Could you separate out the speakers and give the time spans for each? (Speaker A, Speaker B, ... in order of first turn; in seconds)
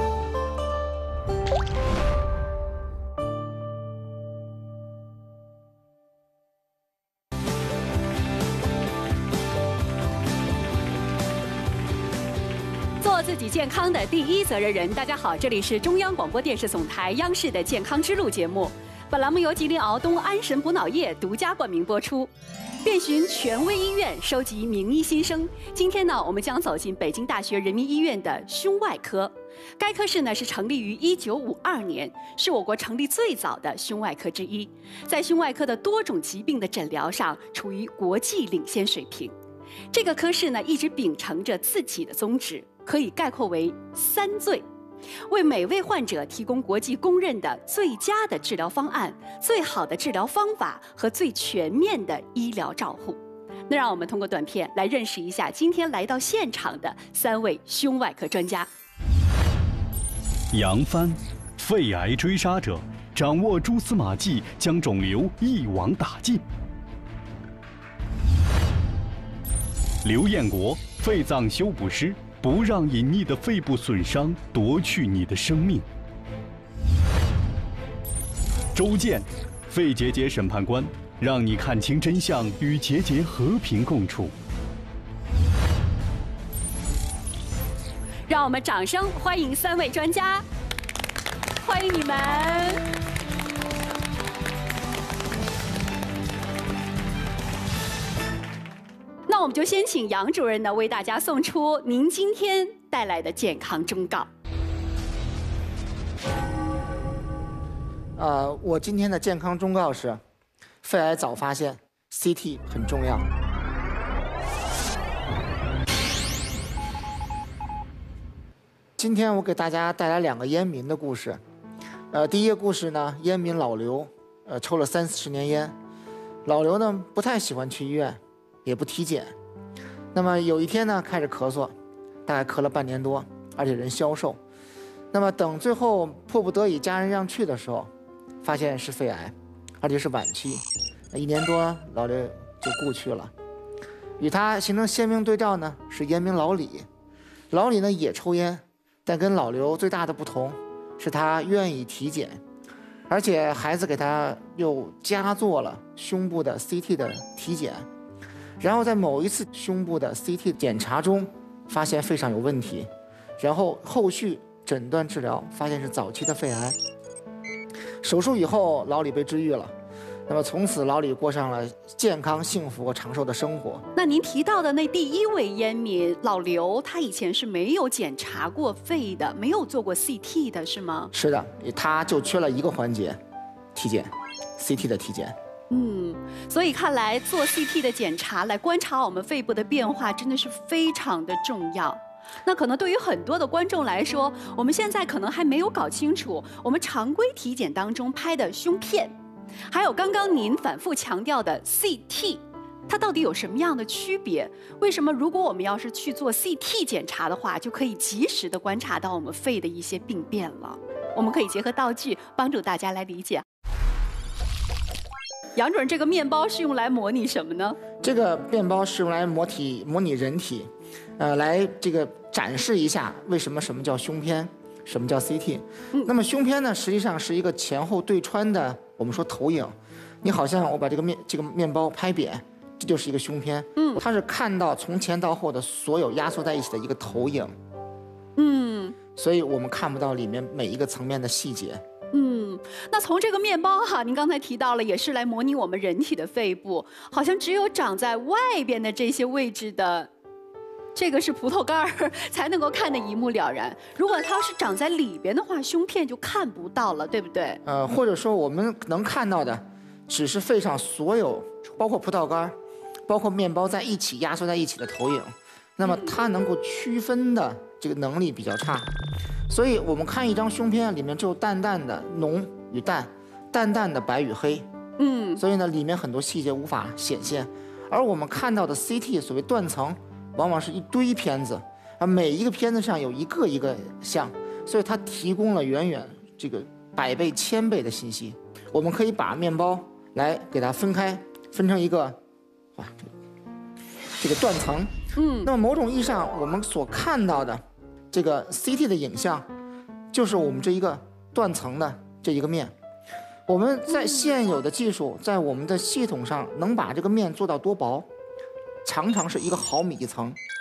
Speaker A: 13.0-22.3, 22.9-39.3, 39.9-44.6, 45.3-58.7, 88.3-90.5, 91.6-92.8, 99.3-104.3, 174.0-181.1, 185.7-199.1, 199.7-213.4, 215.6-217.8, 233.8-234.0, 238.4-238.9, 242.1-250.1, 250.9-257.6, 265.9-266.1, 275.0-275.4, 295.2-295.5, 303.9-304.3
Speaker B: 60.5-66.4, 70.0-75.9, 78.7-84.3
Speaker C: 108.2-110.2, 110.8-113.3, 119.0-121.4, 122.1-125.8, 126.5-129.3, 130.1-131.7, 132.3-134.4, 135.1-137.9, 138.4-143.3, 144.2-146.9, 147.5-152.4, 153.1-157.9, 158.6-166.8, 168.0-169.7, 170.3-173.8, 181.1-183.2, 183.8-185.3, 218.0-237.6, 239.2-241.8, 257.6-262.6, 263.1-268.9, 269.5-274.7, 275.4-292.2, 292.8-293.1, 294.2-294.9, 295.4-299.5, 300.1-302.7, 303.5-308.1, 308.8-310.4